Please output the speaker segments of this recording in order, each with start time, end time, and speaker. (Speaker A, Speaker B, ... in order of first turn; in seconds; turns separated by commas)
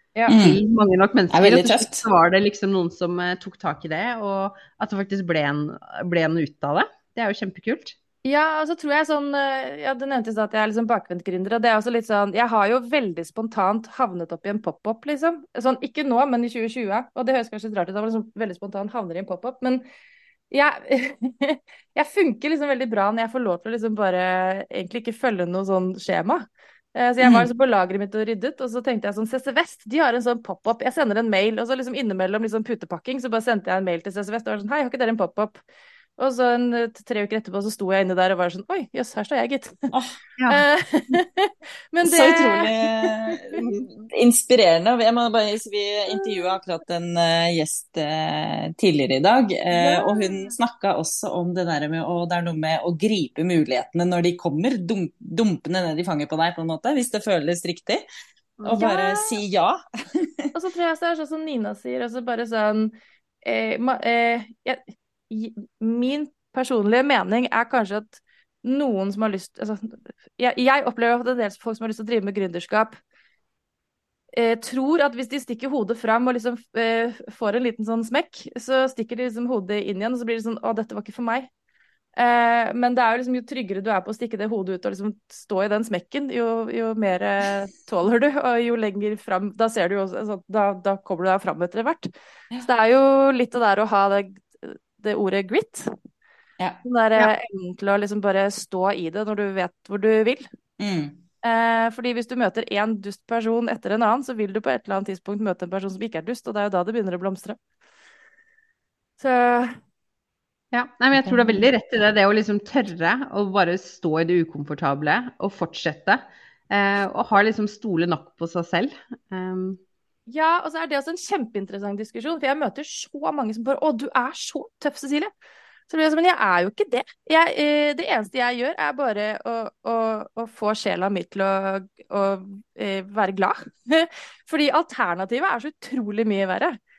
Speaker A: 0.3-0.6, Speaker B: 0.3-8.0, Speaker A: 1.3-2.0, Speaker C: 8.2-19.8, Speaker C: 20.5-35.6, Speaker A: 27.2-27.5, Speaker C: 36.2-39.9, Speaker B: 40.4-40.6, Speaker C: 40.5-43.6, Speaker A: 42.0-58.0, Speaker B: 43.6-43.9, Speaker C: 46.1-46.5, Speaker C: 49.8-50.5, Speaker B: 58.6-58.9, Speaker A: 58.6-60.3, Speaker C: 58.7-59.4, Speaker C: 60.5-62.9, Speaker C: 63.5-73.0, Speaker C: 74.4-81.5, Speaker C: 82.2-92.1, Speaker C: 92.6-95.9, Speaker C: 96.8-100.5, Speaker A: 100.8-101.2, Speaker C: 101.4-107.6, Speaker C: 109.2-109.8, Speaker B: 110.7-119.8, Speaker C: 111.2-111.6, Speaker C: 120.3-125.3, Speaker C: 125.9-136.8